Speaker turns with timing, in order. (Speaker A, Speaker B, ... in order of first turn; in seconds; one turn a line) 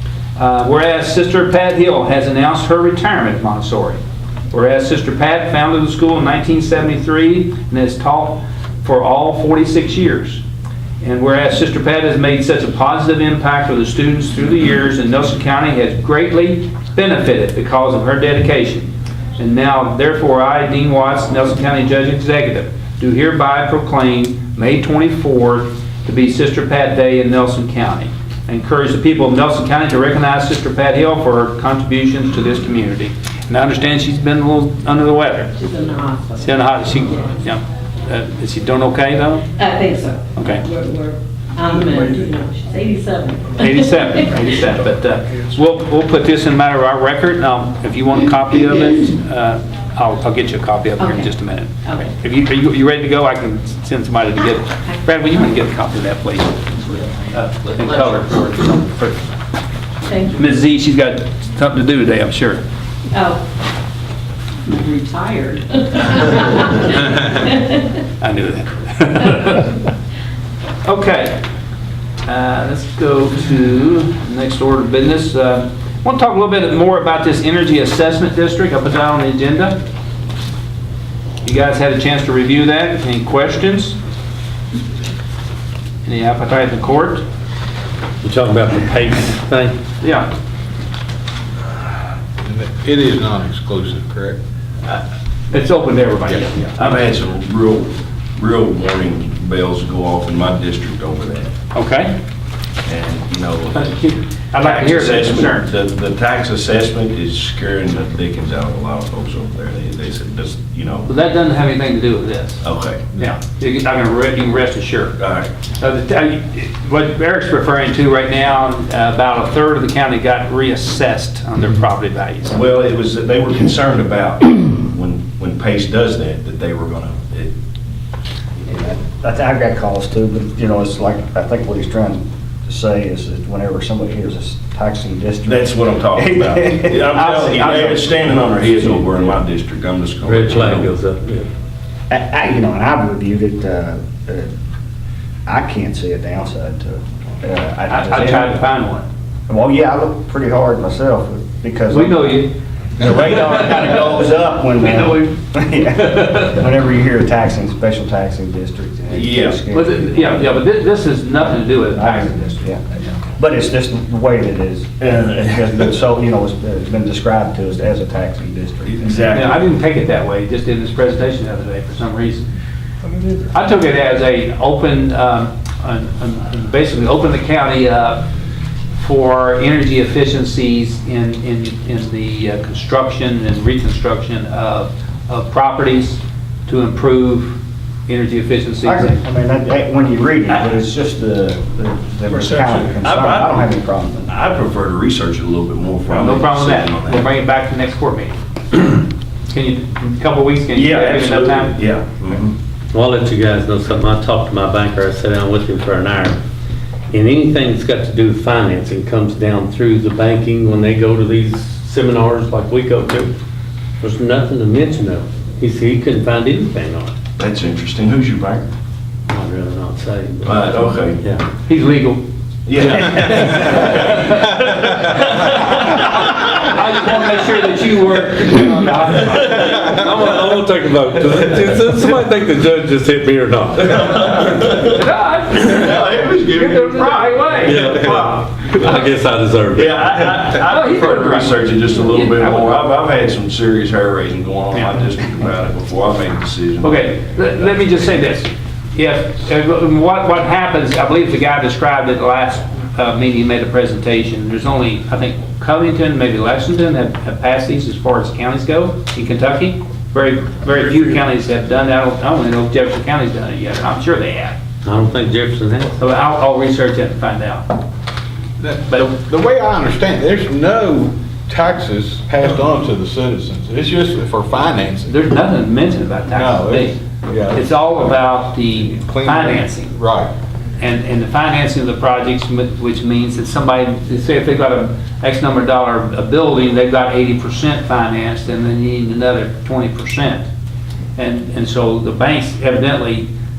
Speaker A: 0.3-4.0
Speaker A: 4.5-10.4
Speaker A: 11.0-35.5
Speaker B: 35.6-36.6
Speaker A: 36.4-39.5
Speaker B: 39.5-44.2
Speaker A: 40.4-40.6
Speaker A: 43.5-59.2
Speaker B: 51.0-51.3
Speaker B: 51.8-52.1
Speaker B: 60.0-60.4
Speaker A: 60.3-62.6
Speaker B: 63.1-63.4
Speaker B: 64.7-68.0
Speaker A: 68.2-69.8
Speaker A: 70.8-71.4
Speaker A: 72.2-79.8
Speaker A: 81.4-84.0
Speaker A: 86.0-87.2
Speaker C: 88.2-89.8
Speaker A: 90.0-90.3
Speaker D: 92.4-94.4
Speaker A: 94.9-97.1
Speaker E: 96.6-101.5
Speaker A: 101.7-102.2
Speaker E: 102.8-111.1
Speaker A: 103.8-105.7
Speaker A: 111.1-112.6
Speaker E: 112.6-113.3
Speaker A: 113.2-115.2
Speaker E: 115.2-115.5
Speaker A: 115.8-122.6
Speaker E: 122.5-127.5
Speaker F: 128.6-139.4
Speaker E: 135.4-140.9
Speaker C: 140.2-141.5
Speaker F: 142.1-144.5
Speaker F: 145.4-148.6
Speaker A: 147.9-149.1
Speaker F: 149.5-152.4
Speaker A: 151.9-152.6
Speaker F: 153.0-160.5
Speaker A: 153.2-153.6
Speaker A: 155.0-155.2
Speaker A: 156.1-156.4
Speaker E: 159.1-159.6
Speaker A: 159.7-163.1
Speaker F: 161.9-162.8
Speaker F: 163.3-169.4
Speaker E: 168.8-169.6
Speaker A: 169.3-172.5
Speaker A: 173.5-178.3
Speaker A: 179.0-189.2
Speaker F: 188.8-194.3
Speaker E: 192.3-193.7
Speaker E: 194.2-197.3
Speaker A: 196.1-201.8
Speaker E: 200.7-202.5
Speaker C: 202.9-206.4
Speaker C: 207.1-213.3
Speaker C: 214.0-217.1
Speaker E: 217.4-218.6
Speaker C: 219.3-221.4
Speaker E: 220.4-221.2
Speaker A: 221.7-222.2
Speaker E: 222.7-226.7
Speaker A: 222.8-224.6
Speaker A: 225.2-230.2
Speaker C: 229.2-234.3
Speaker E: 233.8-238.5
Speaker A: 234.8-238.4
Speaker C: 237.6-240.3
Speaker E: 239.7-248.2
Speaker A: 240.5-242.9
Speaker A: 246.8-264.6
Speaker C: 264.8-265.9
Speaker A: 265.9-267.7
Speaker D: 268.6-275.2
Speaker A: 275.1-277.0
Speaker D: 276.3-278.2
Speaker A: 277.5-279.9
Speaker D: 278.7-280.3
Speaker A: 280.8-290.5
Speaker A: 291.1-293.3